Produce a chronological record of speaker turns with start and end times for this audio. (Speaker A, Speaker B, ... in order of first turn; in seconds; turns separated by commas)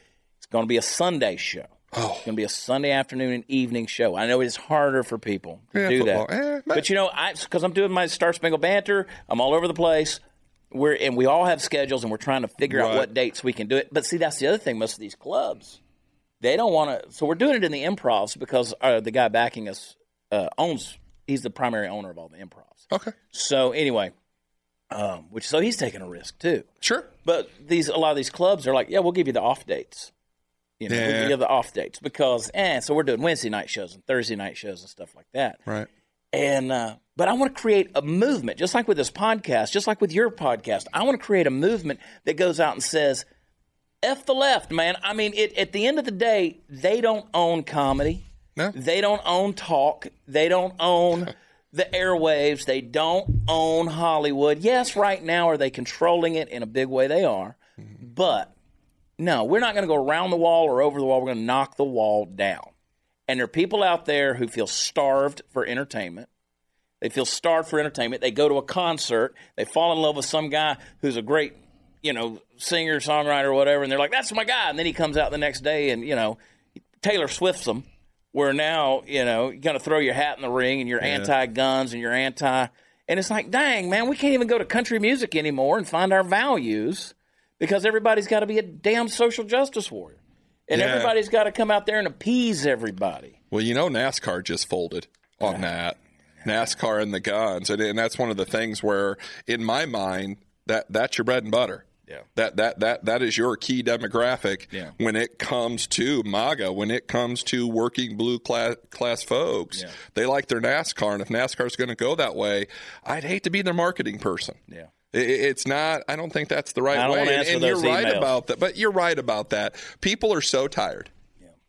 Speaker A: 0.4-1.7, Speaker B: 1.9-2.3, Speaker A: 2.2-15.8, Speaker B: 5.7-6.8, Speaker B: 12.7-13.1, Speaker A: 16.4-24.1, Speaker A: 24.9-26.7, Speaker B: 26.8-27.1, Speaker A: 27.2-30.1, Speaker A: 30.8-35.6, Speaker B: 30.9-31.4, Speaker A: 36.3-43.2, Speaker A: 44.0-58.5, Speaker A: 59.2-62.7, Speaker A: 63.3-66.3, Speaker A: 67.0-76.4, Speaker A: 77.0-93.4, Speaker B: 81.0-81.3, Speaker B: 90.7-91.1, Speaker B: 93.5-121.1, Speaker A: 116.9-118.3